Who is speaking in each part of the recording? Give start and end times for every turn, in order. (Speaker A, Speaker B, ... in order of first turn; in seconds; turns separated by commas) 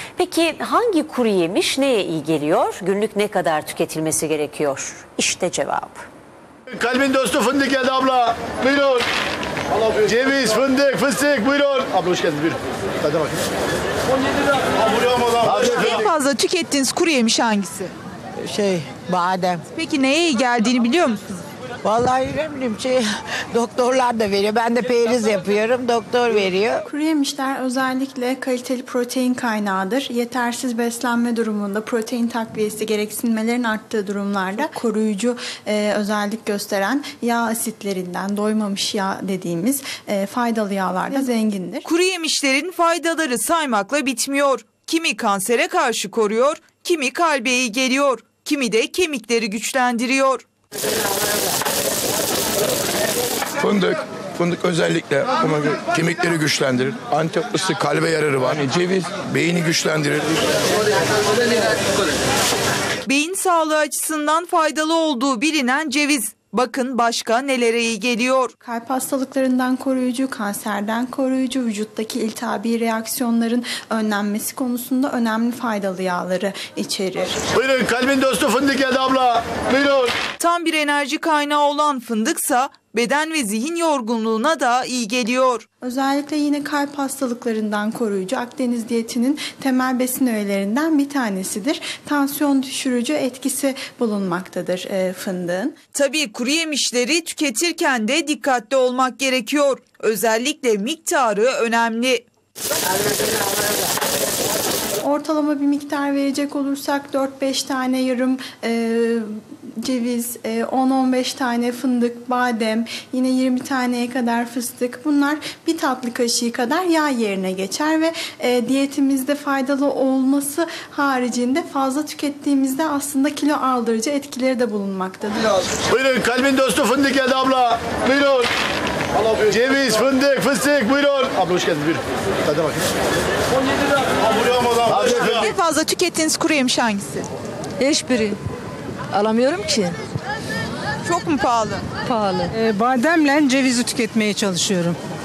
Speaker A: 0.1-6.0, Speaker B: 6.7-9.0, Speaker B: 9.8-13.5, Speaker B: 14.7-16.0, Speaker C: 15.5-17.9, Speaker D: 18.4-19.6, Speaker C: 19.7-21.4, Speaker D: 21.8-26.8, Speaker E: 26.9-41.9, Speaker C: 41.8-50.4, Speaker F: 53.6-60.4, Speaker C: 63.0-68.5, Speaker E: 68.6-77.4, Speaker B: 77.5-80.1, Speaker C: 80.4-85.6, Speaker E: 85.8-95.8, Speaker C: 95.9-102.2, Speaker E: 105.0-125.7, Speaker B: 125.9-128.5, Speaker B: 129.2-132.9, Speaker B: 134.1-135.5, Speaker C: 135.0-137.3, Speaker G: 137.8-138.4, Speaker G: 139.1-140.0, Speaker C: 141.0-141.8, Speaker G: 142.0-142.5, Speaker H: 142.5-145.0